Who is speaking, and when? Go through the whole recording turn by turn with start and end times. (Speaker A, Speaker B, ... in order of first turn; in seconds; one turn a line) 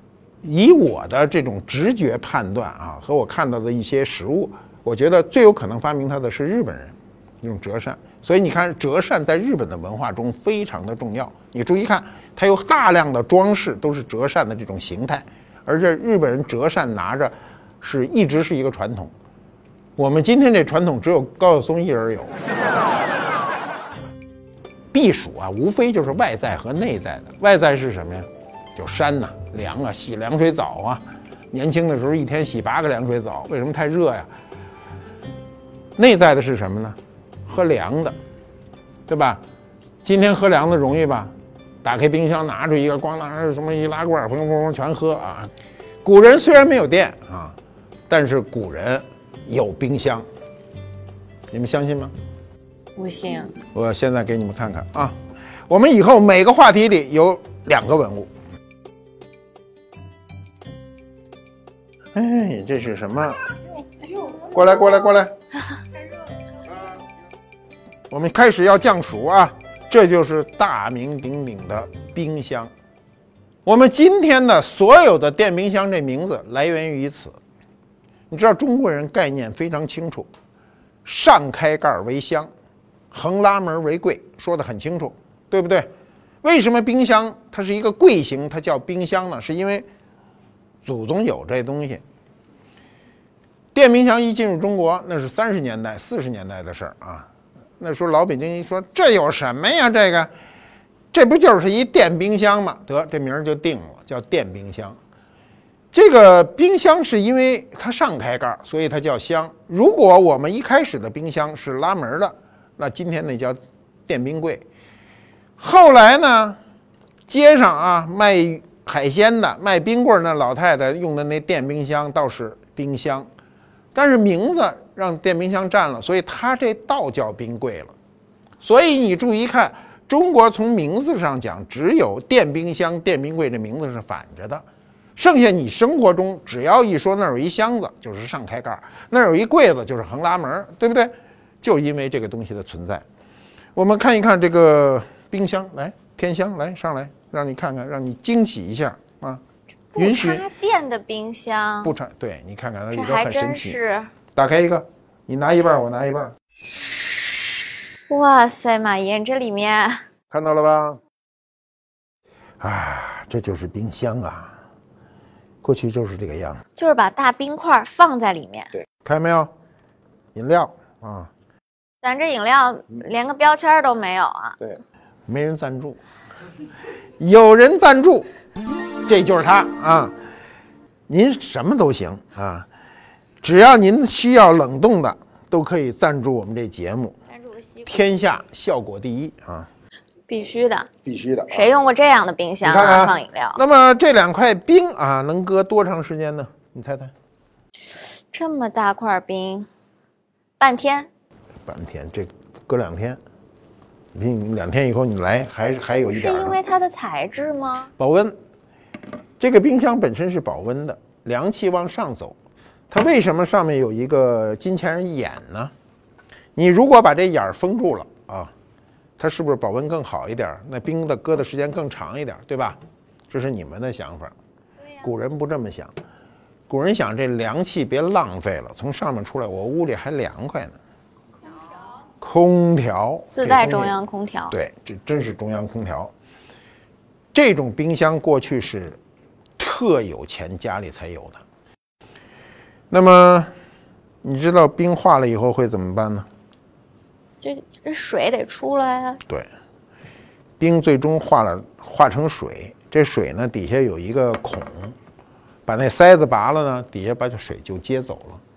Speaker A: 0.4-19.1
Speaker A: 20.0-22.3
Speaker A: 24.9-34.3
Speaker A: 36.0-38.2
Speaker A: 39.1-39.4
Speaker A: 40.0-41.3
Speaker A: 41.8-45.5
Speaker A: 46.0-47.5
Speaker A: 48.1-50.2
Speaker A: 51.5-52.1
Speaker B: 53.0-53.5
Speaker A: 53.7-55.1
Speaker A: 55.7-58.3
Speaker A: 62.1-63.4
Speaker A: 64.2-65.3
Speaker A: 68.1-72.7
Speaker A: 73.6-77.4
Speaker A: 78.3-80.3
Speaker A: 81.0-82.5
Speaker A: 83.1-85.9
Speaker A: 86.4-89.8
Speaker A: 90.8-92.0
Speaker A: 93.7-97.3
Speaker A: 97.8-100.3
Speaker A: 101.1-105.0
Speaker A: 105.9-114.6
Speaker A: 115.6-116.6
Speaker A: 117.3-123.3
Speaker A: 123.9-127.9
Speaker A: 128.6-134.6
Speaker A: 135.2-143.0
Speaker A: 143.7-149.4
Speaker B: 149.9-151.9
Speaker A: 150.0-150.4
Speaker A: 151.8-153.8
Speaker B: 152.9-154.1
Speaker A: 154.3-156.3
Speaker B: 158.1-160.1
Speaker A: 160.3-161.0
Speaker A: 162.6-164.6
Speaker A: 165.6-166.6
Speaker B: 166.8-168.7
Speaker A: 169.0-169.5
Speaker A: 170.3-171.3
Speaker B: 172.0-174.8
Speaker A: 175.3-176.0
Speaker A: 177.2-178.3
Speaker A: 179.1-180.1
Speaker A: 181.1-182.7
Speaker A: 183.4-187.2
Speaker B: 187.3-188.1
Speaker A: 187.8-189.7
Speaker B: 190.3-190.9
Speaker A: 191.1-191.5
Speaker B: 191.5-193.6
Speaker A: 192.6-197.1
Speaker B: 197.9-199.7
Speaker B: 200.6-201.1
Speaker A: 201.7-203.2
Speaker A: 204.1-206.6
Speaker B: 206.1-207.9
Speaker A: 208.0-208.3
Speaker A: 209.4-212.3
Speaker A: 212.9-215.7
Speaker A: 216.6-218.5
Speaker A: 219.2-222.8
Speaker A: 223.3-224.3
Speaker A: 225.0-225.9
Speaker A: 226.7-230.8
Speaker A: 232.2-234.0
Speaker B: 233.3-234.5
Speaker A: 234.5-236.1
Speaker A: 237.3-239.0
Speaker A: 239.6-241.4
Speaker A: 242.9-243.5
Speaker A: 244.2-246.3
Speaker B: 247.4-249.2
Speaker A: 250.6-254.9
Speaker A: 255.7-258.4